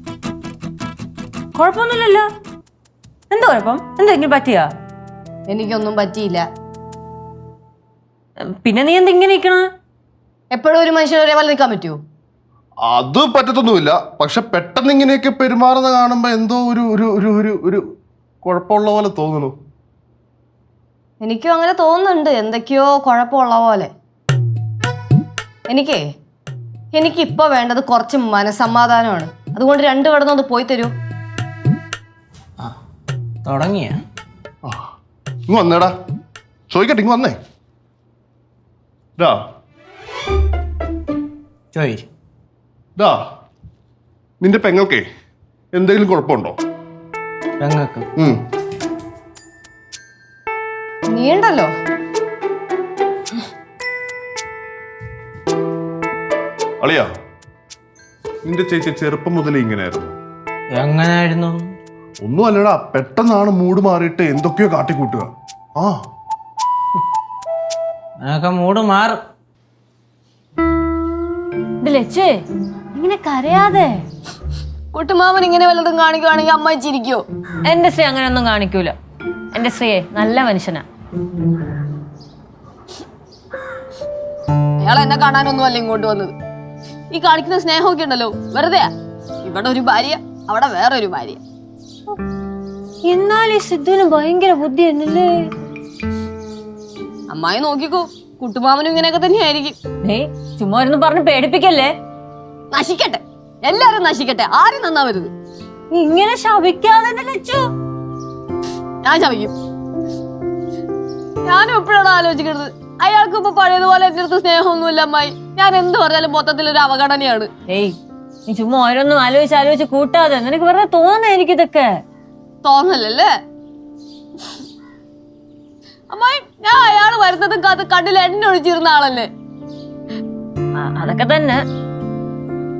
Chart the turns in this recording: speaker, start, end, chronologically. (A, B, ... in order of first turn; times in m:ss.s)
0:01.5-0:02.3 A
0:03.3-0:04.7 A
0:05.5-0:06.4 B
0:08.5-0:09.7 A
0:10.5-0:12.0 B
0:12.8-0:17.8 C
0:18.4-0:19.5 C
0:21.2-0:23.9 B
0:25.7-0:26.0 B
0:26.9-0:30.9 B
0:33.4-0:34.0 D
0:34.6-0:34.9 C
0:35.5-0:35.9 C
0:36.7-0:37.4 C
0:41.7-0:42.0 D
0:44.4-0:45.0 C
0:45.7-0:46.5 C
0:47.6-0:48.0 D
0:51.1-0:51.7 B
0:56.8-0:57.1 C
0:58.4-1:00.1 C
1:00.8-1:01.6 D
1:02.2-1:06.0 C
1:08.2-1:09.2 D
1:11.8-1:12.3 A
1:12.9-1:14.0 A
1:14.9-1:17.2 B
1:17.6-1:18.9 A
1:19.5-1:20.8 A
1:24.8-1:26.3 B
1:27.1-1:28.9 B
1:29.4-1:31.4 B
1:33.0-1:35.5 A
1:37.3-1:39.8 B
1:40.0-1:41.9 A
1:42.7-1:45.3 B
1:45.9-1:47.6 A
1:49.0-1:49.5 B
1:51.4-1:57.5 B
1:57.7-2:01.9 A
2:02.6-2:03.3 B
2:06.1-2:09.3 B
2:10.7-2:11.6 A